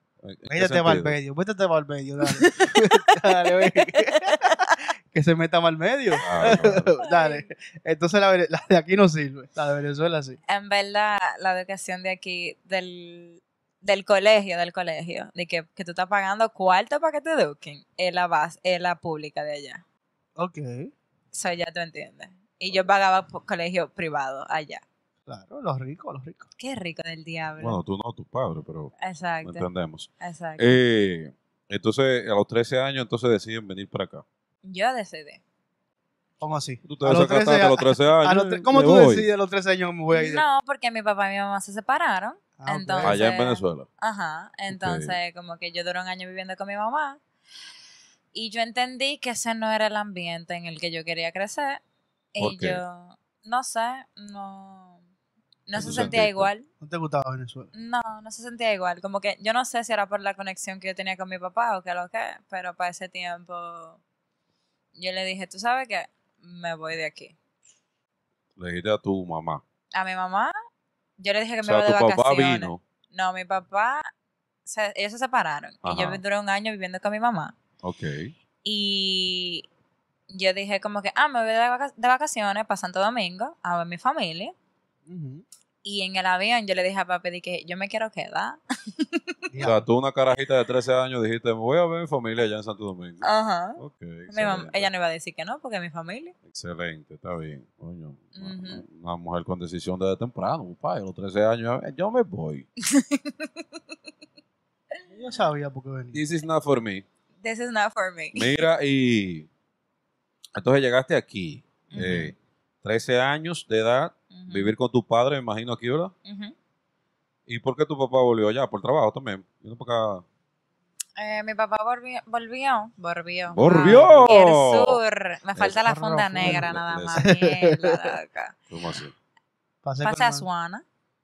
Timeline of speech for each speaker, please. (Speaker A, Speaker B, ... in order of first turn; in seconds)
Speaker A: 0.2-1.2, 6.2-6.9, 27.6-34.2, 36.9-39.3, 43.0-43.9, 44.7-45.2, 52.4-52.8, 55.8-56.5, 68.6-69.6, 71.6-72.8, 75.8-76.2, 77.8-78.3, 89.6-93.2, 93.8-94.9, 96.5-102.7, 106.1-107.0, 108.3-109.5, 110.6-116.1, 117.5-120.2, 123.5-125.0, 125.6-127.3, 128.7-129.2
Speaker B: 0.5-10.4, 20.4-20.9, 25.3-26.5, 36.4-40.5, 42.6-43.2, 55.8-56.2, 56.8-57.7, 85.1-85.4, 89.5-89.8, 105.1-106.2, 123.7-124.3, 126.4-128.1, 129.8-130.5
Speaker C: 2.3-4.6, 7.0-7.5, 10.5-19.8, 21.3-24.8, 26.6-27.8, 29.0-29.7, 30.2-30.7, 34.6-35.4, 40.1-47.2, 48.3-51.8, 52.4-55.0, 55.7-56.7, 57.7-64.0, 65.0-67.3, 69.9-70.5, 71.2-74.1, 74.7-77.5, 78.6-79.7, 80.3-84.5, 85.8-89.3, 93.2-96.3, 98.3-98.8, 102.8-103.5, 107.4-108.5, 111.9-112.3, 114.3-114.7, 116.2-116.5, 121.2-128.6, 130.0-130.8